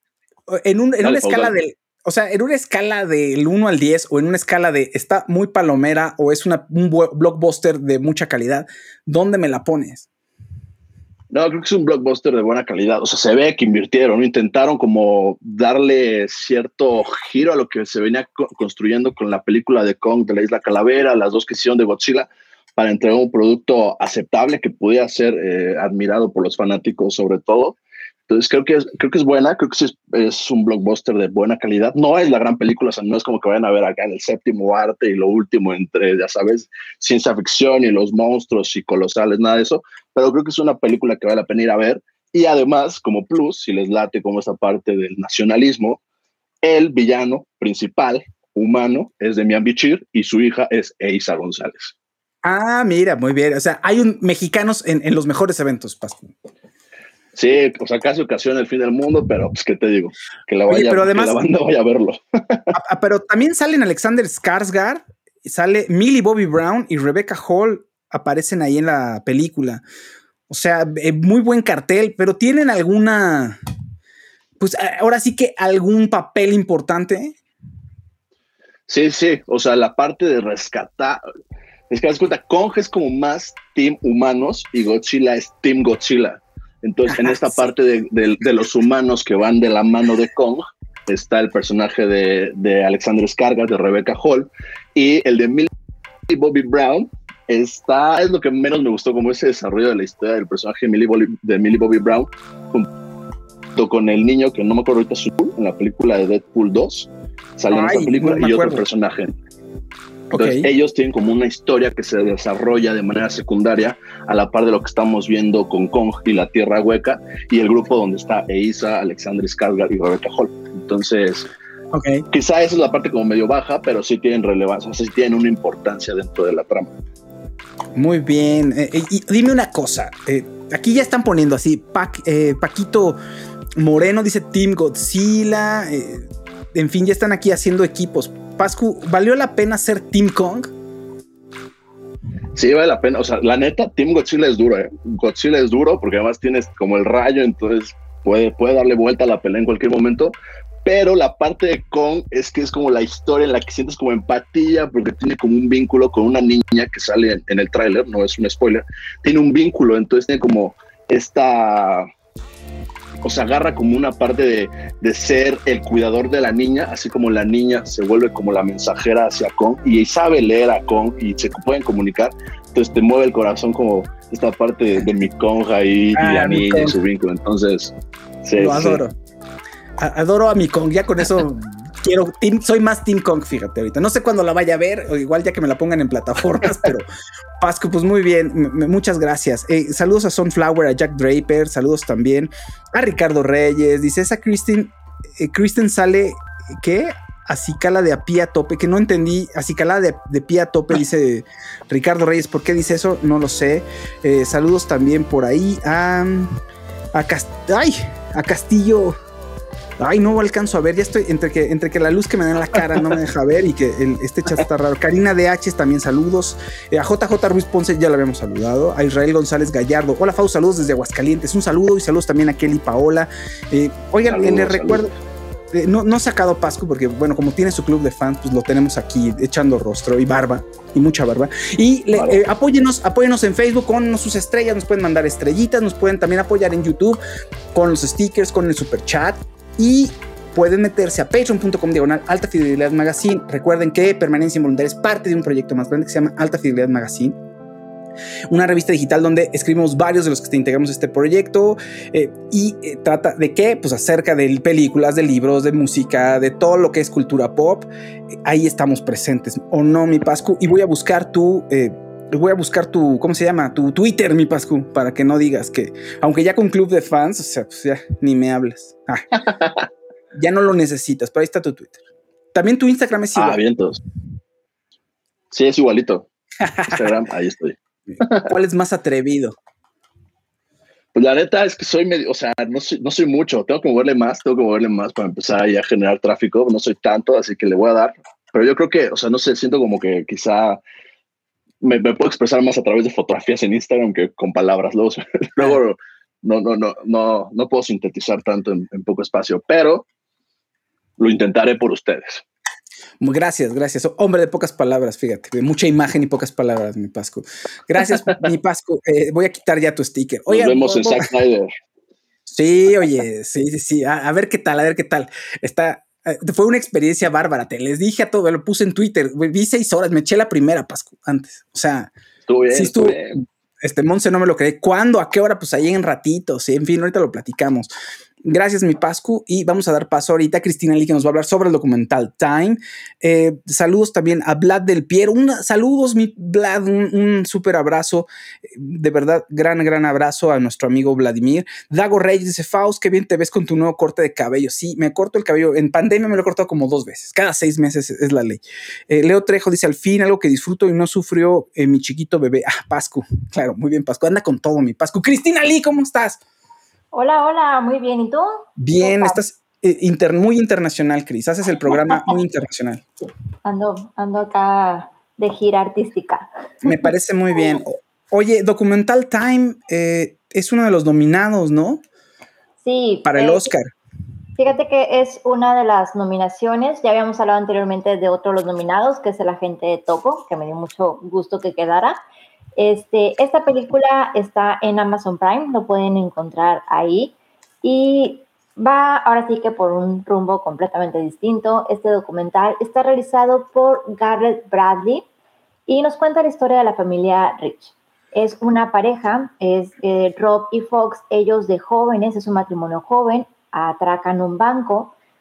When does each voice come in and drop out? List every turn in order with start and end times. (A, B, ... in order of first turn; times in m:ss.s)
0:00.5-0:10.1 A
0:01.0-0:01.5 B
0:11.3-0:27.8 B
0:28.3-0:46.0 B
0:46.6-0:51.9 B
0:52.4-0:56.4 A
0:57.4-1:02.6 B
1:00.7-1:01.4 A
1:02.7-1:09.8 A
1:10.5-1:13.6 A
1:14.6-1:17.4 A
1:18.9-1:21.2 B
1:21.9-1:35.7 B
1:27.2-1:27.7 A
1:36.3-1:42.9 B
1:43.8-1:49.3 B
1:47.7-1:48.8 A
1:50.3-1:50.6 A
1:50.3-2:01.5 B
2:01.9-2:02.2 A
2:02.3-2:07.0 B
2:08.0-2:13.2 A
2:13.8-2:20.7 A
2:22.6-2:42.1 B
2:43.2-2:57.9 B
2:56.2-2:57.0 A
2:58.4-2:59.0 B
2:58.6-2:59.1 A
3:00.0-3:07.1 A
3:07.6-3:26.6 A
3:27.1-3:29.2 A
3:30.0-3:45.1 A
3:44.3-3:45.1 B
3:45.7-3:57.2 A
3:57.7-4:07.4 A
4:08.5-4:17.9 A
4:18.4-4:29.2 A
4:29.4-4:29.9 B
4:30.3-4:32.0 A
4:32.5-4:33.6 A
4:33.4-4:34.0 B
4:35.5-4:36.3 B
4:36.6-4:37.0 A
4:36.9-4:38.5 B
4:38.4-4:39.6 A
4:41.1-4:50.8 B
4:51.8-5:00.0 B
5:01.2-5:02.4 B
5:03.2-5:11.2 A
5:08.1-5:08.4 B
5:10.5-5:11.7 B
5:12.5-5:22.1 A
5:22.5-5:23.4 B
5:22.7-5:23.2 A
5:23.8-5:27.9 A
5:28.4-5:56.4 A
5:57.1-5:59.4 C
5:58.8-6:03.0 A
6:01.9-6:02.3 C
6:03.6-6:07.0 C
6:06.8-6:12.0 A
6:12.8-6:13.7 C
6:13.2-6:13.9 A
6:14.6-6:22.2 C
6:22.8-6:35.2 C
6:35.9-6:45.1 C